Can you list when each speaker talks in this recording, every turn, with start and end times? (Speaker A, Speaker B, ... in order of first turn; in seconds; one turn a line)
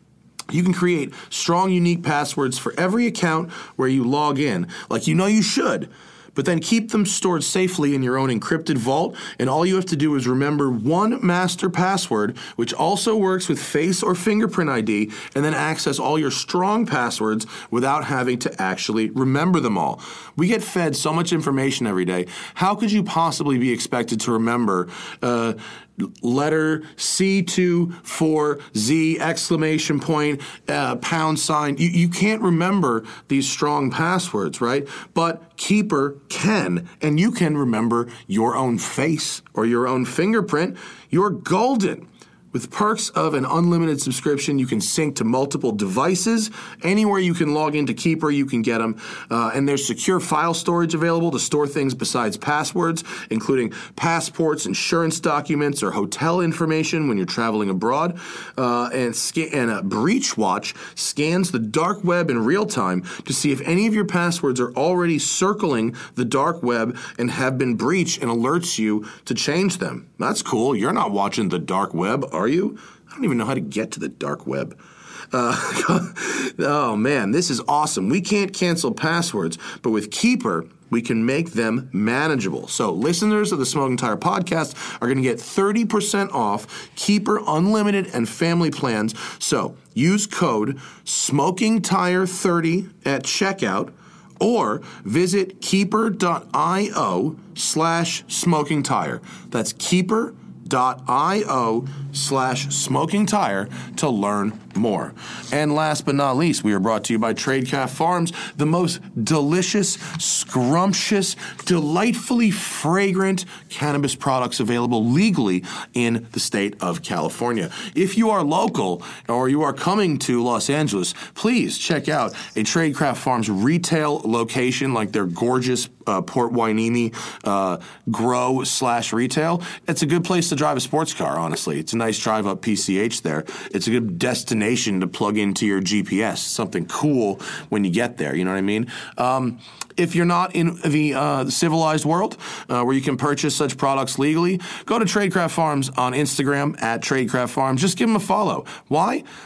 Speaker A: 0.5-74.8
Speaker A: 75.3-149.2